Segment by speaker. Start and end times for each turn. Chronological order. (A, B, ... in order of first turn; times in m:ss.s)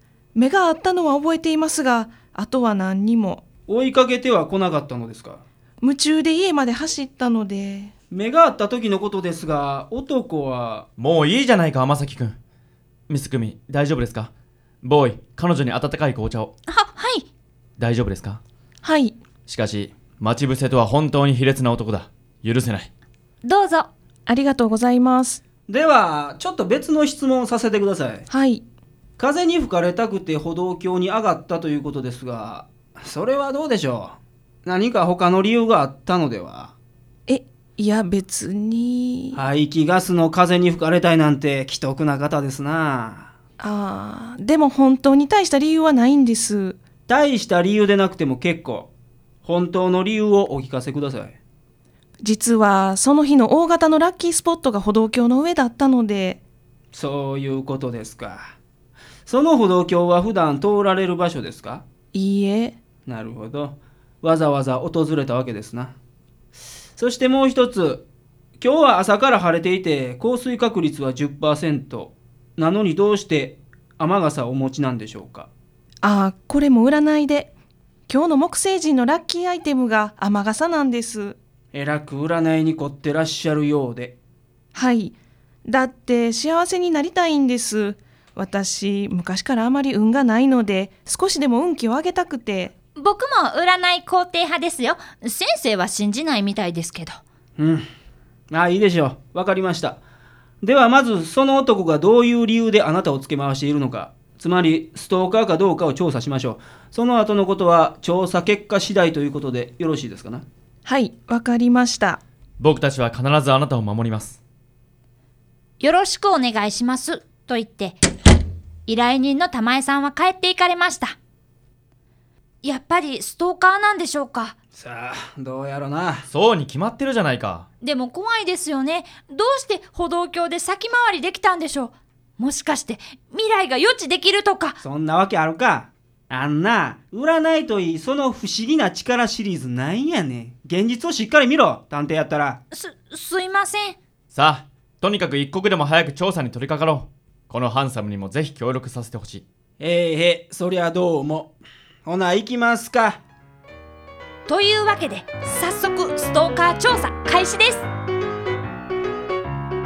0:00.4-0:03.4 A
0:03.7-0:05.4 B
0:05.8-0:07.9 A
0:08.1-0:10.9 B
0:11.0-0:12.4 C
0:13.1-0:14.3 C
0:14.8-0:16.5 C
0:16.7-0:17.2 D
0:17.8-0:18.4 C
0:18.8-0:19.2 A
0:19.5-0:22.9 C
0:23.4-0:23.9 D
0:24.2-0:25.4 A
0:25.7-0:28.2 B
0:28.3-0:28.6 A
0:29.2-0:36.7 B
0:37.3-0:39.4 A
0:39.4-0:43.3 B
0:43.6-0:46.8 A
0:47.1-0:48.9 B
0:49.4-0:51.4 B
0:52.2-0:56.4 A
0:56.9-0:58.5 B
0:59.2-1:01.8 B
1:02.1-1:02.8 A
1:03.1-1:05.9 B
1:07.0-1:08.0 B
1:08.6-1:15.5 B
1:16.0-1:17.5 A
1:18.1-1:21.4 A
1:21.7-1:24.2 B
1:24.7-1:25.2 A
1:25.7-1:32.7 A
1:33.0-1:37.2 D
1:37.6-1:37.8 B
1:38.5-1:40.0 B
1:40.6-1:50.4 B
1:50.8-1:52.2 A
1:52.6-1:54.4 C
1:55.8-1:58.0 D
1:58.9-2:01.2 D
2:02.6-2:04.6 D
2:04.8-2:06.3 B
2:06.3-2:07.7 C
2:07.8-2:14.8 D
2:14.8-2:22.6 B
2:22.7-2:24.0 D
2:24.3-2:29.4 C
2:29.8-2:33.2 B
2:34.4-2:37.9 D